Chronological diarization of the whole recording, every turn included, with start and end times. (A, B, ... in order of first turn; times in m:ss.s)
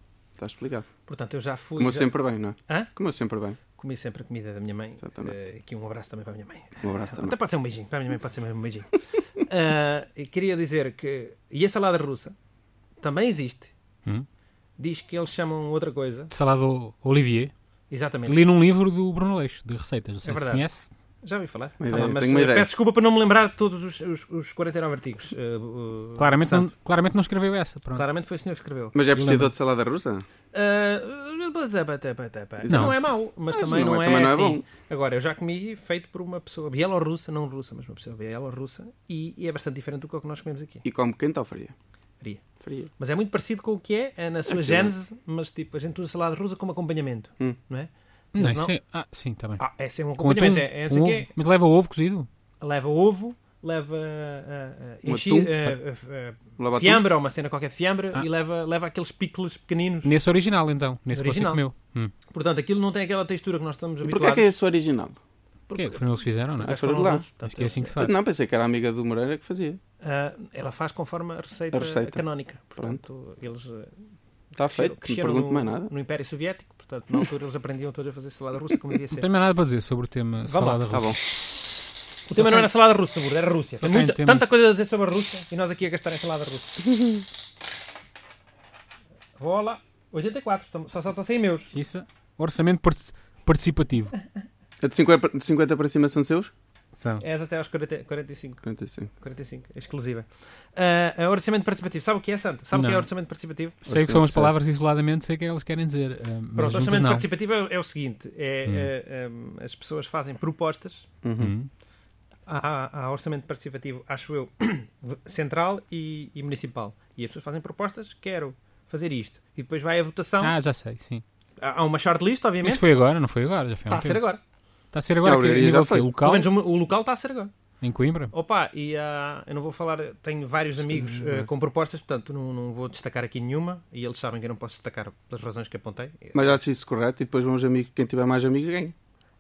0:00.4-0:00.9 A
0:01.1-0:02.2 B
0:01.8-0:03.6 A
0:03.8-0:12.4 B
0:05.0-0:05.4 A
0:06.8-0:07.4 A
0:13.0-0:13.7 B
0:14.8-0:16.3 B
0:16.3-0:17.5 C
0:17.9-0:18.4 B
0:18.3-0:20.9 C
0:20.2-0:20.7 B
0:21.2-0:26.7 B
0:21.8-0:22.7 A
0:26.2-0:28.0 C
0:28.0-0:29.0 B
0:28.9-0:30.2 A
0:29.1-0:29.5 C
0:30.5-0:40.8 B
0:32.6-0:33.0 A
0:32.7-0:33.0 C
0:33.5-0:34.6 A
0:40.8-0:41.8 A
0:42.6-0:42.9 A
0:43.0-0:48.8 B
0:44.5-0:44.9 A
0:48.4-0:49.7 C
0:49.6-0:51.3 B
0:50.2-0:52.3 C
0:52.6-1:00.1 B
0:55.1-0:55.7 A
0:56.6-0:57.0 A
1:00.0-1:02.1 C
1:01.1-1:01.7 B
1:02.3-1:04.5 B
1:04.0-1:05.2 A
1:05.7-1:07.9 B
1:05.8-1:06.8 C
1:06.6-1:07.2 A
1:07.4-1:08.2 C
1:07.9-1:09.8 A
1:10.0-1:13.9 B
1:11.7-1:12.2 A
1:14.5-1:19.3 B
1:14.6-1:15.9 A
1:19.1-1:21.2 C
1:20.5-1:20.8 B
1:20.9-1:21.2 A
1:22.3-1:26.9 B
1:22.3-1:22.7 C
1:23.8-1:24.5 C
1:29.4-1:31.7 B
1:31.7-1:34.1 C
1:34.8-1:36.5 A
1:37.0-1:37.2 C
1:37.2-1:38.6 B
1:38.6-1:39.1 A
1:39.2-1:43.8 B
1:42.7-1:43.1 C
1:43.8-1:47.3 C
1:43.9-1:44.6 A
1:46.6-1:51.1 B
1:51.2-1:51.5 A
1:51.4-1:51.7 C
1:52.5-2:00.6 B
2:00.4-2:01.2 C
2:01.6-2:02.9 B
2:02.6-2:04.2 C
2:03.9-2:04.4 B
2:04.9-2:06.5 C
2:05.2-2:06.1 A
2:06.2-2:07.5 B
2:07.8-2:08.3 C
2:08.3-2:16.6 B
2:10.9-2:11.5 A
2:16.3-2:19.0 A